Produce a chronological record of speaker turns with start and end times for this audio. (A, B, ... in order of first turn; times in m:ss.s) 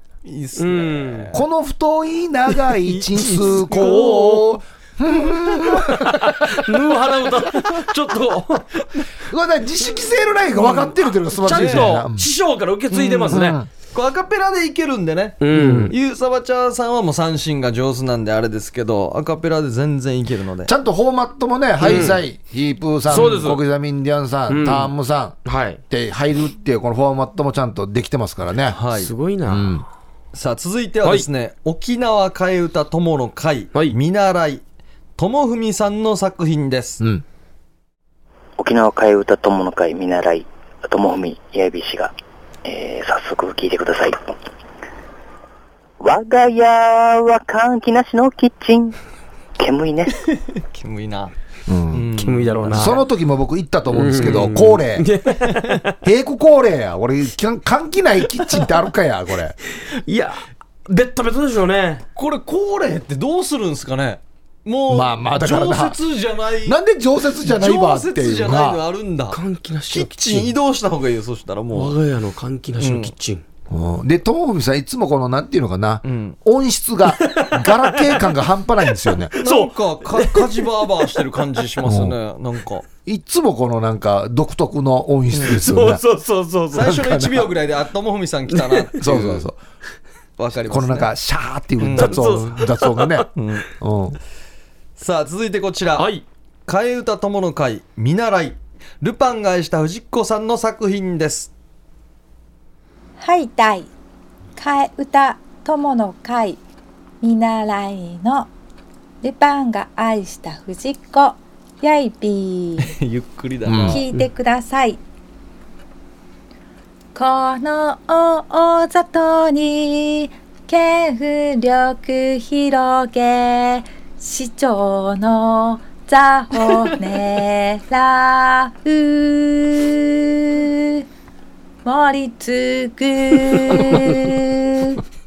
0:00.2-0:01.4 A
0:00.6-0:01.3 B
0:01.3-0:06.7 C
0:02.8-0:04.5 B
0:03.6-0:04.2 A
0:05.7-0:08.8 B
0:09.3-0:12.3 C
0:10.6-0:10.8 B
0:11.4-0:13.6 B
0:11.5-0:11.9 A
0:12.9-0:20.7 A
0:13.3-0:13.7 C
0:15.4-0:15.9 B
0:15.5-0:15.9 C
0:20.6-0:28.8 C
0:21.8-0:22.2 B
0:23.1-0:23.6 B
0:24.5-0:24.9 B
0:25.4-0:25.8 B
0:28.7-0:29.1 A
0:28.9-0:29.8 B
0:29.5-0:29.8 C
0:30.3-0:34.6 A
0:35.2-0:37.0 A
0:38.6-0:42.1 D
0:42.6-0:44.3 D
0:46.0-0:49.0 D
0:49.6-0:50.2 D
0:50.5-0:51.3 A
0:51.7-0:55.1 C
0:51.9-0:53.0 A
0:52.2-0:53.0 B
0:53.9-0:55.9 B
0:56.0-0:59.6 C
0:59.9-1:02.0 B
1:02.2-1:06.8 A
1:04.9-1:06.0 C
1:06.6-1:08.8 C
1:07.4-1:11.9 A
1:09.3-1:10.5 B
1:11.7-1:13.4 B
1:12.8-1:13.1 A
1:13.7-1:19.3 C
1:16.0-1:16.4 A
1:17.2-1:18.2 B
1:19.3-1:20.6 B
1:19.3-1:22.8 A
1:21.8-1:22.2 C
1:23.0-1:26.0 C
1:25.4-1:27.0 B
1:26.7-1:29.5 A
1:26.7-1:27.5 C
1:28.6-1:28.9 B
1:29.0-1:29.6 C
1:30.4-1:31.1 A
1:30.7-1:34.2 C
1:31.8-1:32.4 A
1:32.0-1:33.2 B
1:33.3-1:33.7 A
1:35.0-1:36.1 A
1:36.0-1:36.2 B
1:36.7-1:41.5 A
1:43.2-1:43.9 E
1:44.6-1:46.6 E
1:47.2-1:48.5 E
1:49.2-1:52.9 E
1:52.8-1:54.0 A
1:53.6-1:54.0 C
1:53.9-1:55.0 E
1:57.1-2:11.0 E
2:11.8-2:15.0 E